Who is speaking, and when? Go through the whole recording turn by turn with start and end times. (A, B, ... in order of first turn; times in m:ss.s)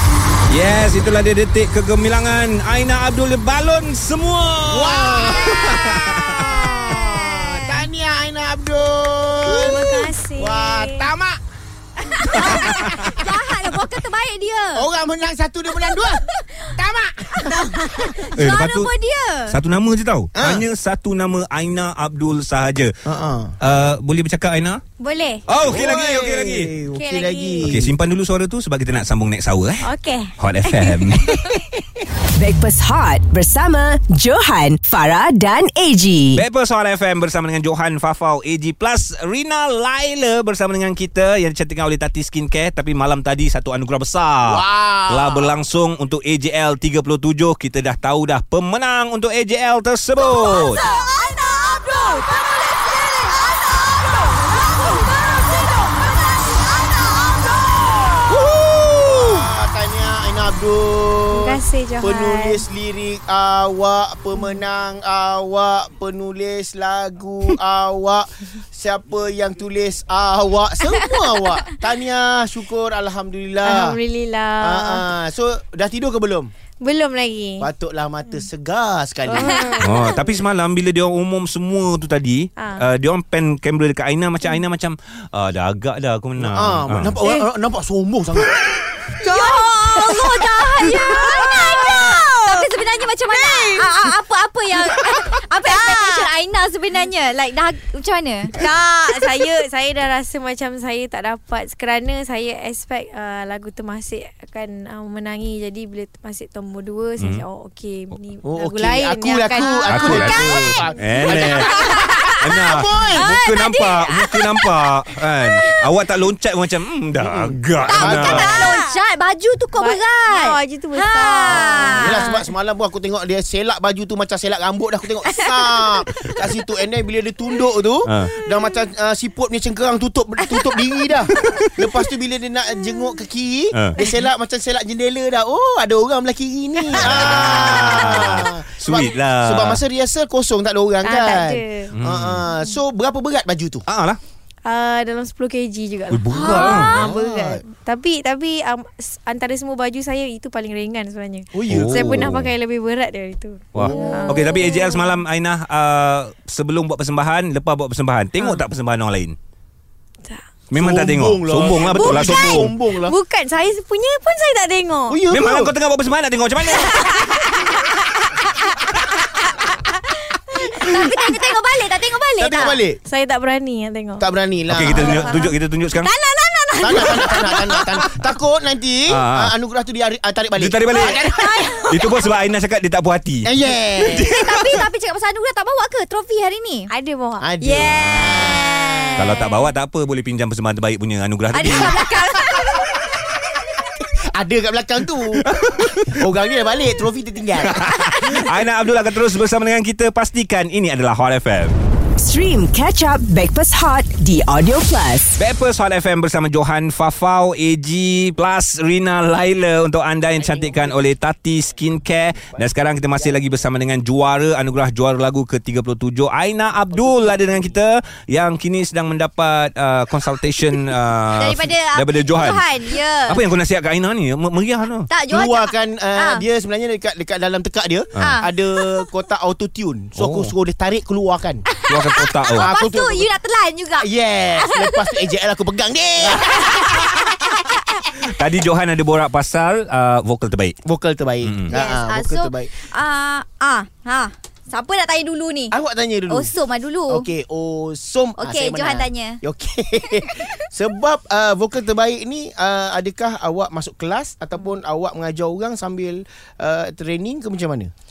0:00.5-0:07.7 A
0:04.7-0:11.4 B
0:05.1-0:06.0 C
0:06.8-0:07.5 C
0:09.4-0:11.1 D
0:12.3-0:14.8 C
0:12.4-0:13.2 B
0:12.5-0:13.1 A
0:14.7-0:18.2 B
0:15.9-0:16.3 C
0:17.5-0:19.6 C
0:17.6-0:18.1 D
0:18.4-0:18.9 A
0:19.5-0:22.9 A
0:20.4-0:20.6 B
0:23.0-0:23.5 B
0:23.6-0:24.8 A
0:25.0-0:25.4 D
0:25.5-0:26.7 A
0:25.6-0:27.9 B
0:26.9-0:27.8 D
0:27.6-0:29.9 A
0:29.8-0:31.7 D
0:30.4-0:31.5 A
0:32.3-0:36.4 E
0:36.3-0:50.8 A
0:44.4-0:45.5 B
0:50.2-0:58.6 C
0:58.3-1:14.0 B
1:01.3-1:02.6 D
1:13.6-1:15.0 D
1:14.6-1:16.5 B
1:16.8-1:17.7 D
1:17.6-1:19.6 B
1:19.3-1:20.3 D
1:19.8-1:27.2 A
1:22.6-1:22.8 D
1:26.4-1:28.9 B
1:29.2-1:33.9 D
1:29.2-1:38.7 C
1:35.6-1:36.3 D
1:38.5-1:51.6 D
1:47.2-1:47.4 A
1:48.4-1:53.4 B
1:49.6-1:50.7 C
1:49.8-1:51.7 A
1:51.5-1:52.3 C
1:52.4-1:58.7 A
1:53.2-1:54.7 C
1:57.2-1:58.8 B
1:57.8-2:02.2 C
1:58.6-1:59.0 D
1:59.7-2:02.5 D
2:01.5-2:23.8 B
2:05.6-2:06.0 C
2:08.0-2:08.3 A
2:13.7-2:14.0 A
2:17.0-2:19.8 A
2:17.1-2:17.5 D
2:21.0-2:21.9 D
2:21.9-2:22.4 A
2:22.5-2:22.8 D
2:23.9-2:24.2 A
2:24.6-2:35.2 D
2:26.1-2:26.9 A
2:26.3-2:27.6 B
2:31.5-2:32.4 B
2:31.6-2:32.5 A
2:33.7-2:39.4 A
2:33.8-2:34.5 B
2:33.9-2:34.2 C
2:38.4-2:38.6 D
2:40.7-2:42.7 A
2:40.7-2:43.1 B
2:41.8-2:45.2 D
2:45.1-2:45.7 B
2:45.3-2:47.3 A
2:46.6-2:48.7 D
2:49.5-2:51.0 D
2:50.7-2:52.8 C
2:52.4-2:53.0 B
2:53.0-2:54.2 D
2:54.2-2:55.4 B
2:54.7-2:56.1 A
2:54.9-2:58.0 D
2:56.8-3:01.8 B
2:59.1-2:59.5 A
3:00.6-3:03.5 A
3:01.0-3:01.9 C
3:03.4-3:04.3 B
3:04.0-3:04.7 A
3:04.2-3:06.9 C
3:06.9-3:07.9 D
3:07.4-3:09.4 B
3:07.6-3:09.6 C
3:07.9-3:08.5 A
3:09.2-3:11.9 A
3:11.5-3:13.0 C
3:11.8-3:13.2 B
3:14.3-3:15.5 B
3:15.5-3:16.3 A
3:16.0-3:17.9 B
3:17.6-3:21.8 A
3:22.2-3:25.4 E
3:25.4-3:45.1 A
3:30.4-3:31.0 B
3:41.4-3:43.4 C
3:45.1-3:46.4 C
3:45.3-3:51.6 B
3:48.2-3:49.0 C
3:50.2-3:50.5 A
3:51.7-3:55.3 C
3:51.9-3:52.7 A
3:52.6-3:53.3 B
3:54.0-3:57.4 B
3:56.2-3:57.8 C
3:58.1-4:00.8 A
4:00.8-4:02.8 B
4:01.4-4:01.7 A
4:01.7-4:05.8 C
4:05.7-4:06.5 B
4:06.3-4:07.2 C
4:07.1-4:17.9 B
4:08.4-4:09.4 C